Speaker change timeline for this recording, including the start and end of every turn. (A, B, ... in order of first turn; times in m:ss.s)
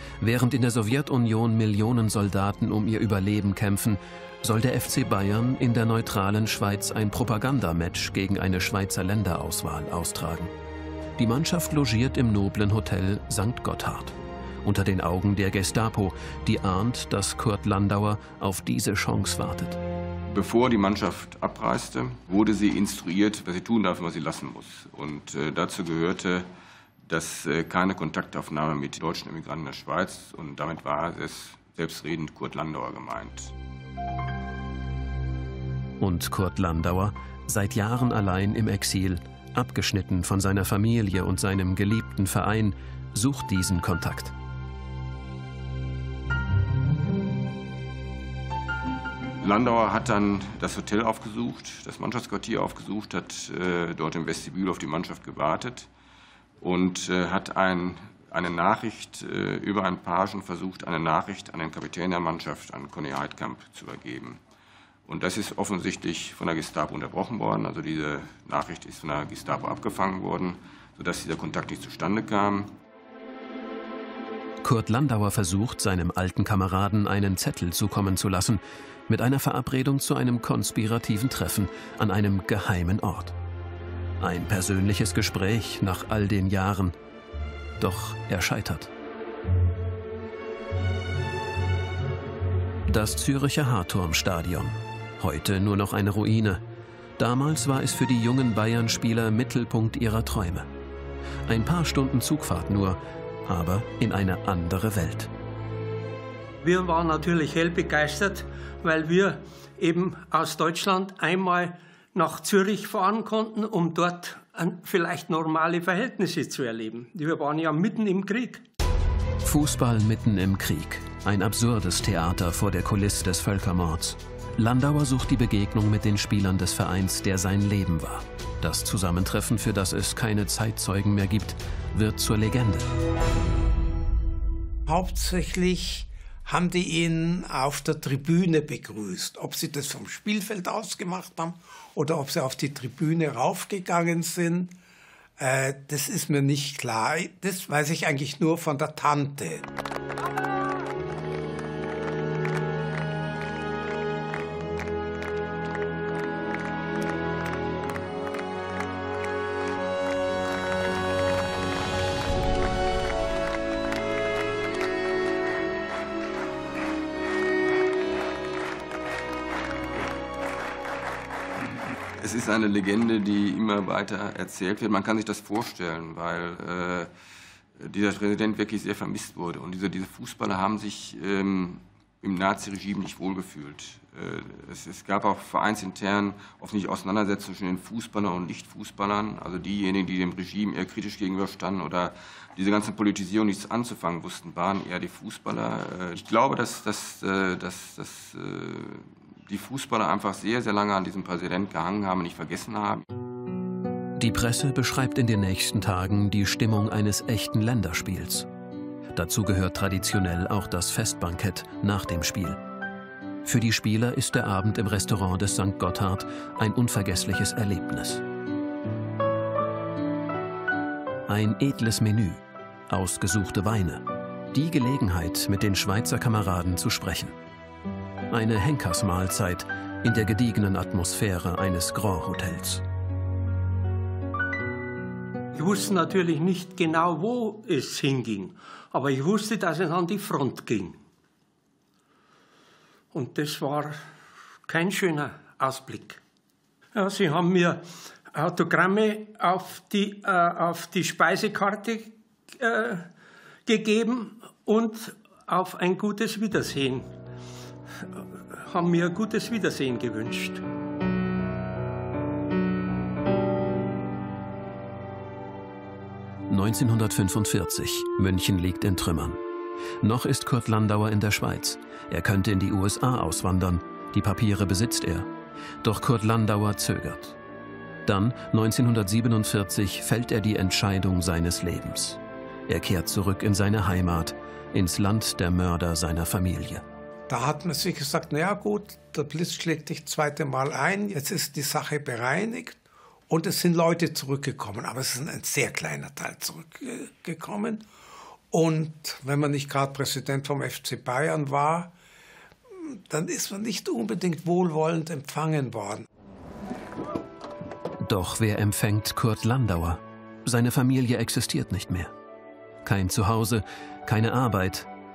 0:00.2-0:10.5 A
0:11.2-0:19.8 A
0:20.3-0:26.5 B
0:27.1-0:33.5 B
0:36.0-0:44.3 A
0:49.4-0:55.9 B
0:56.6-1:04.4 B
1:05.1-1:12.7 B
1:14.6-1:23.4 A
1:24.2-1:27.0 A
1:27.8-1:28.9 A
1:32.9-1:36.6 A
1:37.2-1:40.7 A
1:41.5-1:45.3 A
1:46.6-1:58.6 C
1:59.4-2:12.9 A
2:14.9-2:24.8 D
2:25.4-2:29.7 D
2:52.2-2:57.1 B
2:57.8-3:23.0 B
3:24.2-3:28.5 A
3:29.1-3:32.6 A
3:33.4-3:38.2 A
3:41.3-3:47.4 A
3:48.3-3:52.8 A
3:55.5-4:01.0 C
4:03.1-4:04.0 C
4:04.7-4:06.2 C
4:07.0-4:13.1 C
4:13.7-4:17.1 C
4:18.5-4:20.6 C
4:26.5-4:29.4 A
4:30.0-4:35.3 A
4:35.8-4:37.4 A
4:38.0-4:46.8 A
4:47.3-4:57.9 D
4:58.5-5:01.9 D
5:02.7-5:06.1 D
5:08.0-5:12.1 A
5:12.8-5:14.9 A